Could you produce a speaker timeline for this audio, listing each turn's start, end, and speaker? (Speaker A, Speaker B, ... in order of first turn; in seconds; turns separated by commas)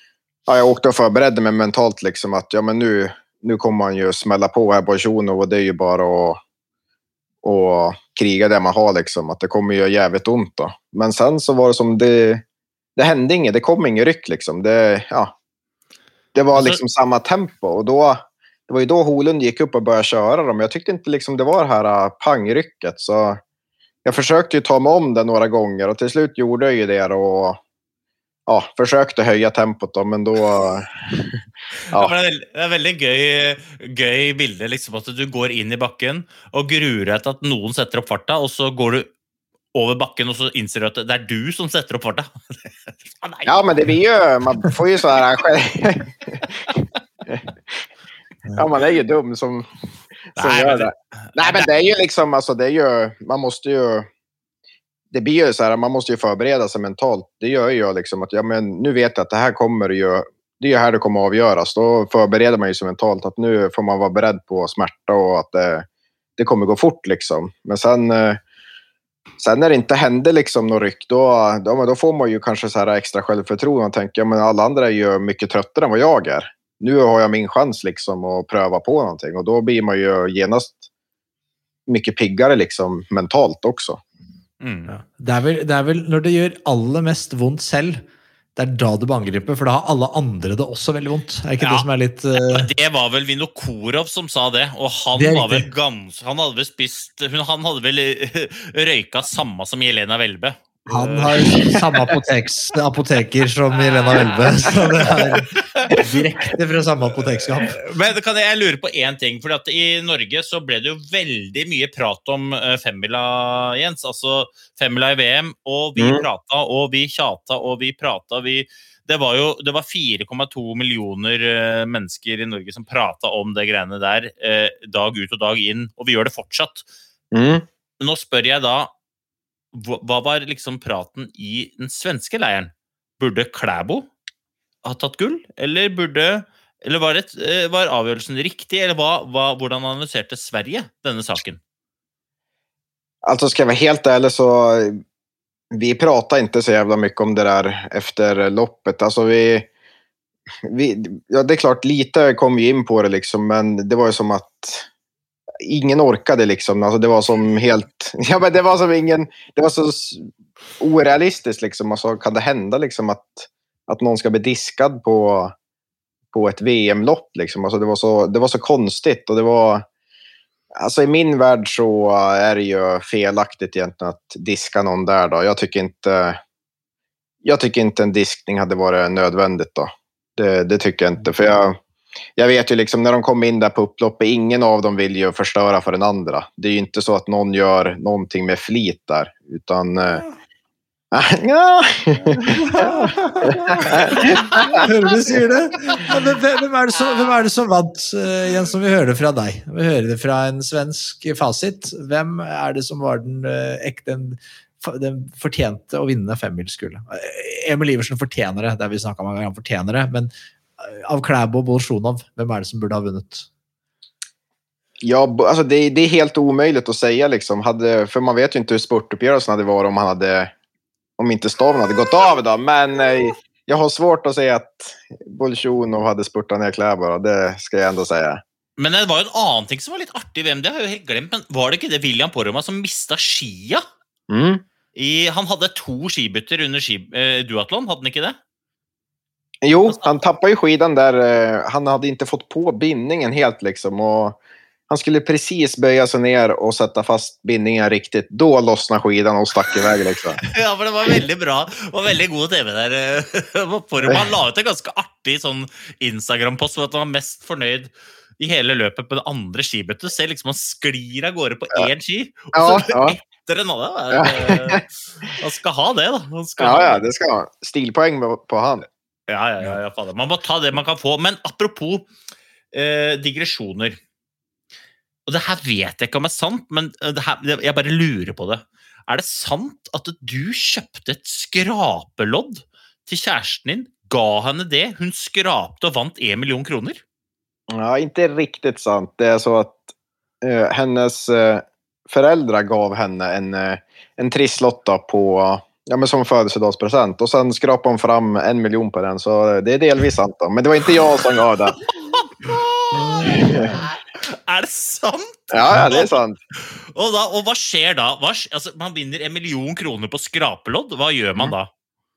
Speaker A: 0.5-6.4, Speaker A: 7.4-12.4, Speaker A: 13.0-15.3, Speaker A: 16.3-23.4, Speaker B: 16.5-16.8, Speaker A: 24.0-27.6, Speaker A: 28.5-31.4, Speaker B: 31.9-39.1, Speaker B: 39.7-43.6, Speaker A: 43.5-47.4, Speaker A: 48.5-49.7, Speaker A: 50.3-54.1, Speaker B: 50.4-51.7, Speaker A: 55.1-65.8, Speaker A: 66.4-68.4, Speaker A: 69.4-80.9, Speaker A: 81.9-84.0, Speaker B: 84.6-84.9, Speaker C: 84.9-88.0, Speaker C: 88.5-92.7, Speaker B: 91.6-102.2, Speaker C: 95.1-95.7, Speaker C: 100.9-107.8, Speaker B: 103.7-106.2, Speaker B: 107.6-126.9, Speaker A: 116.0-116.2, Speaker A: 127.3-127.7, Speaker B: 128.0-128.9, Speaker B: 129.7-134.1, Speaker B: 134.8-141.6, Speaker A: 143.2-145.0, Speaker A: 145.7-149.7, Speaker A: 150.7-154.9, Speaker A: 155.6-160.3, Speaker A: 160.8-165.5, Speaker A: 166.3-169.8, Speaker A: 170.8-176.4, Speaker A: 177.4-181.8, Speaker A: 182.3-190.2, Speaker A: 191.1-194.8, Speaker C: 192.4-213.5, Speaker A: 215.0-220.5, Speaker A: 221.2-228.4, Speaker B: 228.8-233.8, Speaker A: 234.3-234.6, Speaker B: 234.9-238.4, Speaker A: 239.6-244.4, Speaker A: 244.9-250.4, Speaker B: 250.4-267.0, Speaker A: 262.5-263.2, Speaker A: 264.1-264.8, Speaker A: 266.6-268.9, Speaker B: 269.3-272.1, Speaker B: 272.7-274.0, Speaker B: 275.2-287.0, Speaker A: 287.7-289.9, Speaker A: 290.4-301.8, Speaker B: 301.3-311.7, Speaker C: 303.2-303.7, Speaker A: 305.5-306.4